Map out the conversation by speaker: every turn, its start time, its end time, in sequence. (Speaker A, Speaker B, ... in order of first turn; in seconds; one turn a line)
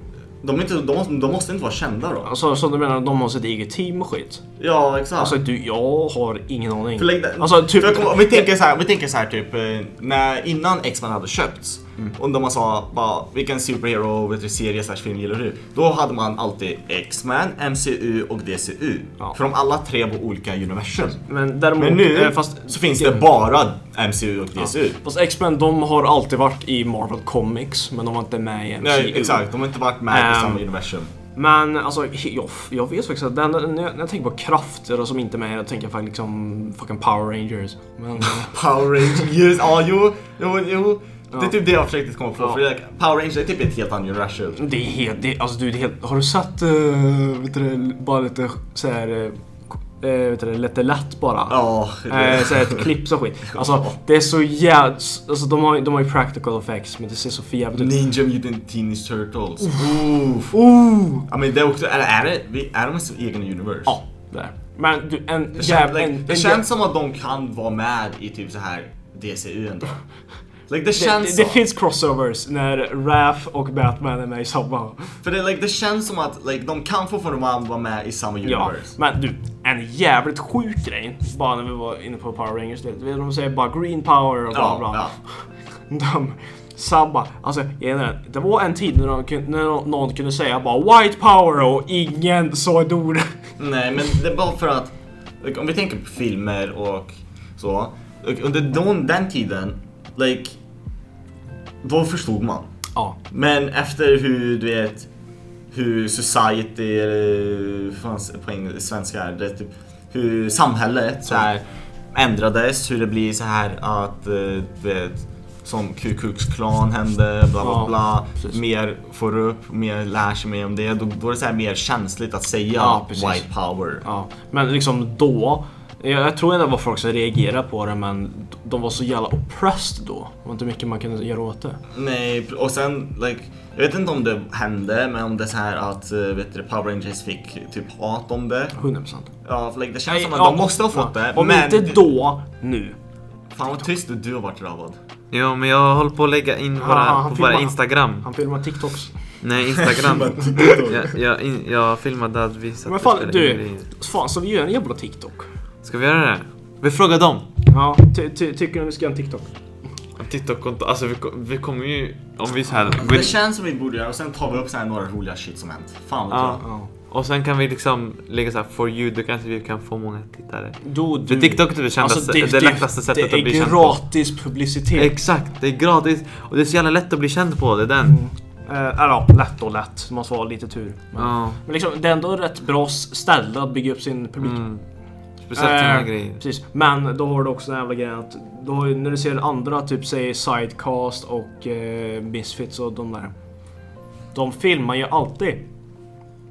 Speaker A: 0.4-2.3
Speaker B: 2.2-4.4
Speaker A: 4.6-5.4
Speaker B: 5.2-8.5
Speaker A: 7.0-21.2
Speaker B: 21.1-23.2
Speaker A: 21.8-25.0
Speaker B: 25.0-29.4
Speaker A: 28.8-31.1
Speaker B: 30.1-30.6
Speaker B: 31.4-38.5
Speaker A: 38.2-44.6
Speaker B: 41.3-41.6
Speaker B: 44.6-57.9
Speaker A: 51.5-52.9
Speaker A: 53.5-53.9
Speaker A: 57.8-60.6
Speaker B: 60.5-61.3
Speaker A: 61.3-64.0
Speaker B: 63.9-66.6
Speaker A: 65.6-70.0
Speaker A: 70.7-71.6
Speaker B: 71.0-75.2
Speaker A: 75.2-79.0
Speaker B: 78.4-93.4
Speaker A: 84.5-85.2
Speaker A: 93.6-100.6
Speaker A: 101.8-102.7
Speaker A: 103.3-105.1
Speaker A: 105.7-111.6
Speaker A: 112.1-124.0
Speaker B: 117.6-118.6
Speaker B: 122.8-123.5
Speaker B: 124.0-131.8
Speaker A: 131.9-138.8
Speaker B: 138.8-139.3
Speaker A: 139.4-142.1
Speaker B: 140.1-143.0
Speaker A: 143.5-145.0
Speaker C: 145.3-148.3
Speaker B: 146.8-149.2
Speaker C: 149.4-153.9
Speaker A: 149.8-151.1
Speaker B: 150.5-150.9
Speaker B: 152.9-155.5
Speaker C: 155.8-157.5
Speaker B: 157.7-159.5
Speaker C: 160.2-163.3
Speaker A: 163.0-166.6
Speaker C: 166.3-174.2
Speaker B: 166.6-166.9
Speaker B: 170.8-175.1
Speaker C: 175.0-178.2
Speaker B: 178.1-184.7
Speaker C: 181.2-181.6
Speaker C: 184.4-184.8
Speaker C: 185.4-186.4
Speaker B: 185.6-193.3
Speaker B: 194.3-195.6